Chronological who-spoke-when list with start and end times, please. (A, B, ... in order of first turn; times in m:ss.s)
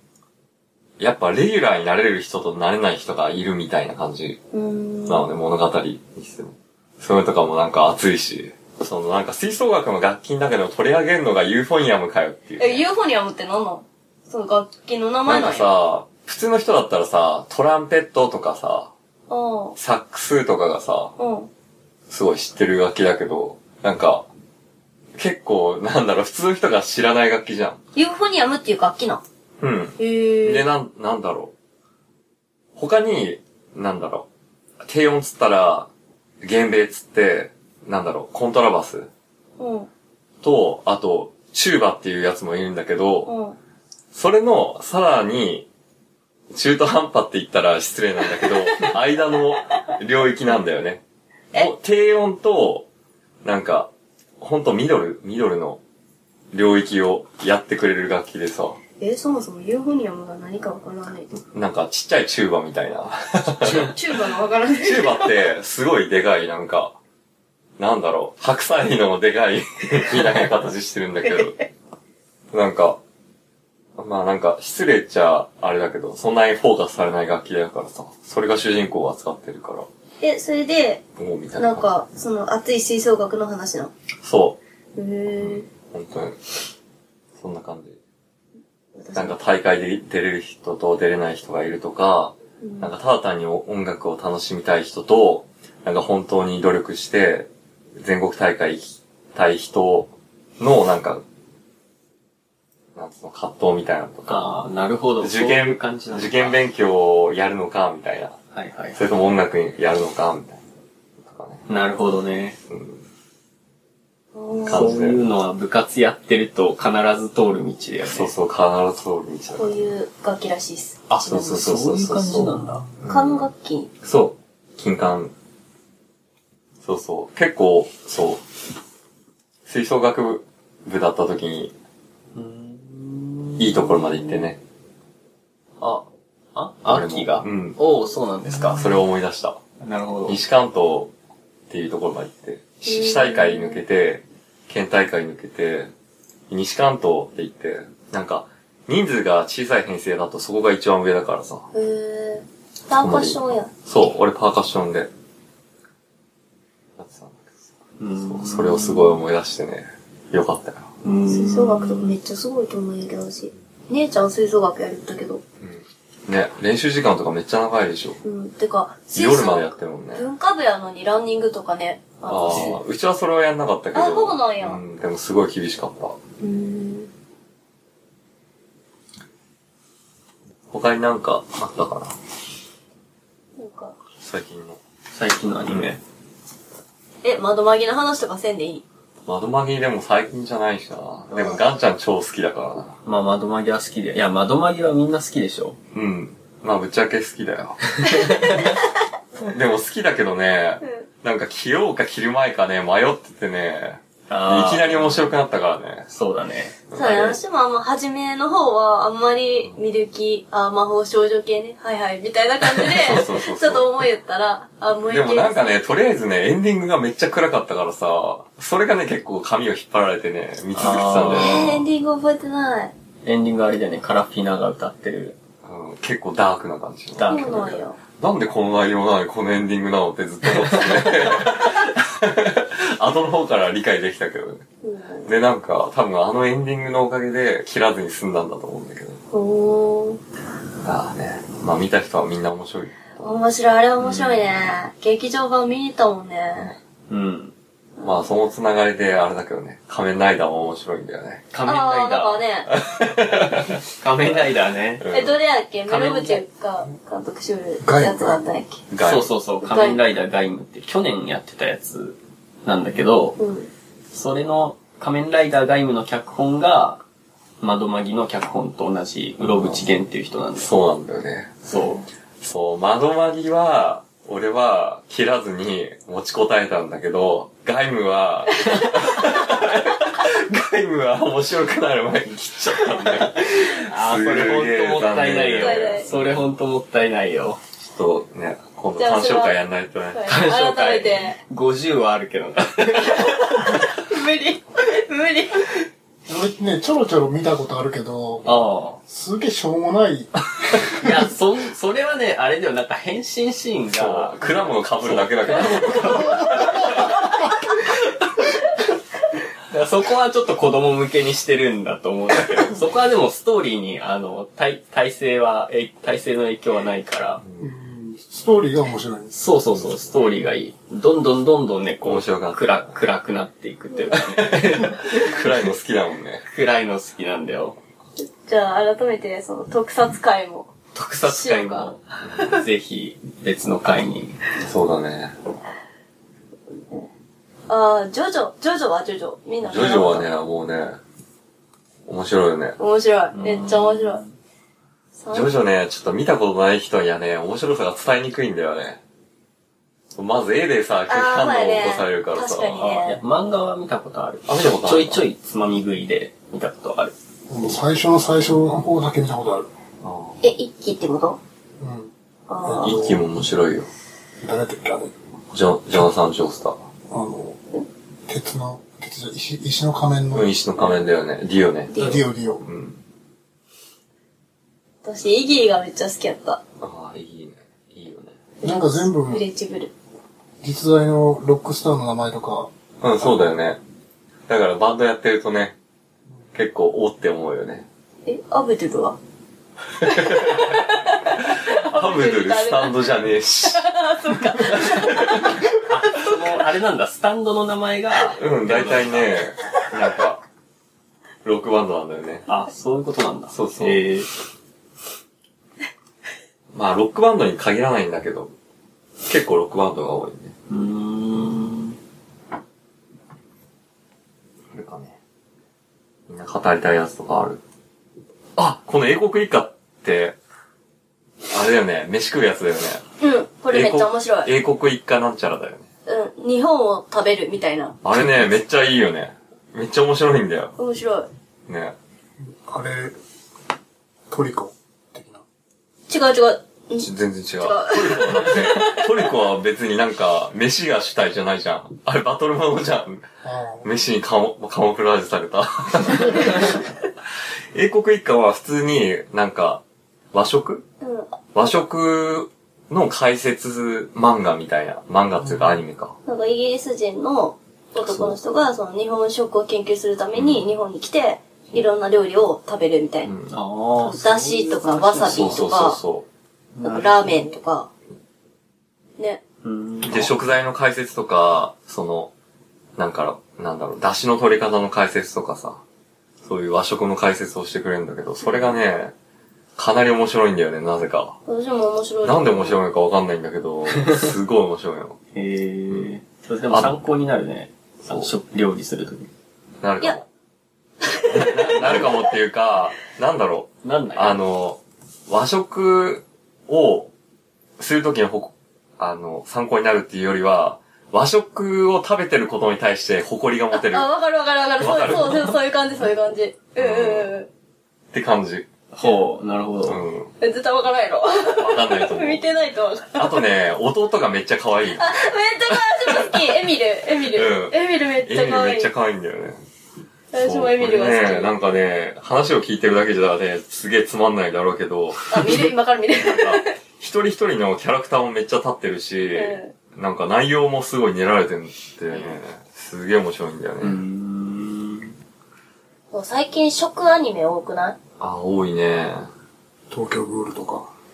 0:01.0-0:04.4 A
0:04.5-0:05.3 B
0:05.0-0:12.8 A
0:12.6-0:15.7 B
0:15.2-0:18.9 A
0:19.3-0:19.8 B
0:19.8-0:21.1 A
0:21.2-0:21.5 B
0:22.1-0:24.2 A
0:25.2-0:27.8 A
0:27.9-0:29.2 B
0:29.6-0:31.5 A
0:30.0-0:30.7 B
0:32.8-0:34.2 A
0:34.8-0:35.9 A
0:36.4-0:39.1 A
0:39.6-0:39.9 B
0:40.4-0:43.3 A
0:43.2-0:43.6 B
0:44.1-0:45.6 A
0:46.5-0:51.0 A
0:51.5-0:52.8 A
0:53.4-0:55.8 A
0:56.5-0:58.8 A
0:59.0-1:01.3 B
1:01.4-1:04.0 A
1:03.6-1:05.3 B
1:04.8-1:06.9 A
1:07.8-1:11.6 A
1:12.5-1:13.0 A
1:14.0-1:19.9 A
1:20.2-1:21.0 B
1:21.2-1:21.9 A
1:21.6-1:23.9 B
1:24.2-1:24.6 A
1:25.0-1:25.7 B
1:25.3-1:26.4 A
1:27.4-1:28.0 A
1:29.0-1:29.4 B
1:29.1-1:41.2 A
1:32.6-1:32.9 B
1:42.9-1:44.5 A
1:44.3-1:46.6 C
1:45.2-1:48.3 A
1:48.5-1:49.0 C
1:48.9-1:50.6 A
1:51.2-1:51.6 A
1:51.7-1:52.6 C
1:52.7-1:53.0 A
1:54.3-1:55.0 B
1:54.6-1:55.2 A
1:54.7-1:58.3 C
1:58.0-1:59.7 A
1:59.5-2:01.0 B
2:01.1-2:03.5 A
2:01.2-2:02.8 C
2:03.0-2:03.9 B
2:04.0-2:05.3 A
2:06.8-2:08.4 A
2:09.7-2:11.7 A
2:12.3-2:14.5 C
2:13.6-2:14.6 A
2:15.8-2:19.1 C
2:16.9-2:17.8 A
2:18.6-2:19.6 A
2:19.8-2:20.4 C
2:20.3-2:21.1 A
2:21.7-2:25.9 A
2:22.8-2:23.8 B
2:26.5-2:31.7 A
2:31.7-2:33.7 B
2:33.0-2:35.1 A
2:37.0-2:37.6 A
2:38.0-2:39.2 C
2:38.2-2:40.9 A
2:41.0-2:42.1 C
2:41.1-2:45.4 B
2:45.6-2:48.2 A
2:48.2-2:52.8 B
2:49.1-2:50.2 A
2:52.2-2:56.2 A
2:53.9-2:54.8 B
2:56.4-2:57.1 B
3:00.7-3:02.1 A
3:03.6-3:04.0 B
3:04.2-3:04.8 A
3:05.1-3:06.0 C
3:07.2-3:08.8 B
3:09.2-3:13.0 A
3:11.3-3:11.6 B
3:13.0-3:15.8 C
3:15.9-3:18.6 A
3:18.0-3:18.7 C
3:19.4-3:26.1 A
3:24.3-3:25.3 C
3:26.1-3:27.2 C
3:26.9-3:27.4 A
3:26.9-3:35.8 B
3:33.0-3:33.9 A
3:35.1-3:41.8 A
3:40.7-3:41.8 C
3:41.3-3:42.9 B
3:43.2-3:45.3 C
3:45.6-3:54.6 A
3:47.2-3:47.7 C
3:47.3-3:48.0 B
3:50.6-3:51.3 C
3:54.8-3:55.3 B
3:55.2-3:59.2 A
3:59.3-4:00.2 B
4:00.8-4:03.0 A
4:03.2-4:06.8 B
4:07.1-4:07.5 C
4:08.0-4:08.3 B
4:08.0-4:11.5 A
4:11.5-4:12.4 C
4:11.6-4:12.7 B
4:12.7-4:13.7 A
4:13.5-4:15.0 C
4:15.0-4:15.4 A
4:15.1-4:18.8 B
4:15.9-4:16.4 C
4:17.8-4:18.4 D
4:18.9-4:19.3 A
4:19.0-4:23.4 C
4:19.6-4:20.0 B
4:23.4-4:23.7 B
4:24.1-4:27.0 C
4:27.6-4:30.7 C
4:29.4-4:29.9 A
4:30.6-4:31.6 A
4:31.6-4:32.0 C
4:32.4-4:46.4 A
4:43.3-4:47.6 C
4:45.5-4:46.1 B
4:47.8-4:50.3 A
4:49.0-4:49.6 B
4:50.1-4:51.4 B
4:50.3-4:53.9 C
4:53.2-4:55.8 B
4:56.3-5:01.1 D
4:58.4-4:59.0 C
5:00.9-5:07.3 C
5:03.9-5:07.1 A
5:06.2-5:06.7 D
5:09.7-5:17.4 C
5:17.4-5:17.7 A
5:17.6-5:19.4 D
5:19.3-5:25.7 C
5:22.0-5:23.0 A
5:24.1-5:26.4 A
5:26.5-5:27.8 C
5:28.2-5:30.7 B
5:30.9-5:34.4 C
5:31.2-5:31.9 B
5:34.6-5:35.3 A
5:37.7-5:40.3 B
5:39.6-5:41.0 A
5:42.1-5:42.8 A
5:42.8-5:44.2 B
5:43.3-5:44.3 C
5:45.2-5:45.5 B
5:45.3-5:49.0 A
5:50.2-5:53.0 A
5:51.1-5:53.2 B
5:52.8-5:57.1 C
5:54.5-5:55.2 A
5:57.5-5:59.7 D
6:00.0-6:00.4 A
6:00.4-6:01.4 B
6:01.8-6:02.1 D
6:02.5-6:03.0 B
6:02.6-6:03.3 D
6:02.8-6:03.9 A
6:04.4-6:05.1 D
6:05.5-6:06.8 A
6:07.1-6:07.6 D
6:08.3-6:10.5 D
6:10.3-6:11.9 A
6:11.9-6:12.3 B
6:12.0-6:12.6 D
6:12.6-6:13.0 A
6:15.0-6:16.6 B
6:16.8-6:18.4 A
6:18.6-6:19.9 B
6:18.6-6:19.4 D
6:20.6-6:22.7 D
6:23.0-6:23.8 A
6:24.5-6:25.7 A
6:26.5-6:27.8 A
6:28.2-6:29.2 B
6:30.0-6:30.8 A
6:30.0-6:33.0 B
6:31.4-6:33.8 A
6:33.6-6:35.6 B
6:34.6-6:35.3 A
6:35.7-6:39.4 C
6:38.4-6:40.4 A
6:41.4-6:42.4 A
6:42.5-6:44.3 C
6:43.5-6:44.0 A
6:46.7-6:48.5 A
6:49.2-6:50.5 A
6:50.7-6:52.0 C
6:54.7-6:55.1 A
6:56.3-6:57.6 A
6:58.6-7:00.4 A
7:01.5-7:03.0 A
7:03.2-7:04.5 B
7:03.7-7:05.8 A
7:06.1-7:08.0 B
7:08.0-7:10.7 A
7:10.8-7:11.3 B
7:11.7-7:11.9 A
7:12.5-7:13.1 D
7:14.3-7:15.4 D
7:16.1-7:17.1 B
7:17.0-7:23.2 A
7:17.6-7:19.0 B
7:23.4-7:24.0 D
7:23.8-7:26.8 A
7:27.7-7:29.8 A
7:30.3-7:30.8 A
7:31.0-7:31.4 B
7:31.5-7:36.1 A
7:36.2-7:43.3 B
7:38.0-7:38.4 A
7:40.3-7:40.6 A
7:43.2-7:43.5 A
7:43.5-7:45.6 C
7:44.0-7:46.0 B
7:45.2-7:46.2 A
7:46.8-7:47.5 C
7:46.8-7:47.9 B
7:49.6-7:50.3 C
7:50.0-7:52.3 A
7:53.0-7:55.8 A
7:56.4-7:59.1 A
7:59.8-8:01.4 A
8:01.4-8:02.8 B
8:02.2-8:05.2 A
8:05.3-8:09.3 C
8:09.8-8:10.2 A
8:11.0-8:12.0 B
8:11.3-8:17.1 A
8:13.8-8:14.4 C
8:17.8-8:24.1 A
8:23.7-8:27.5 B
8:24.8-8:25.6 A
8:26.8-8:27.3 A
8:28.1-8:28.7 A
8:28.9-8:30.0 C
8:29.8-8:30.3 A
8:30.4-8:33.4 B
8:31.6-8:32.4 A
8:33.1-8:35.1 A
8:34.9-8:38.9 B
8:36.1-8:36.3 A
8:37.3-8:39.6 A
8:40.3-8:41.5 B
8:40.4-8:54.0 A
8:45.3-8:46.7 B
8:49.3-8:49.7 B
8:52.1-8:52.4 B
8:53.8-8:55.1 C
8:56.1-8:58.0 B
8:58.2-8:59.3 A
8:59.9-9:00.9 D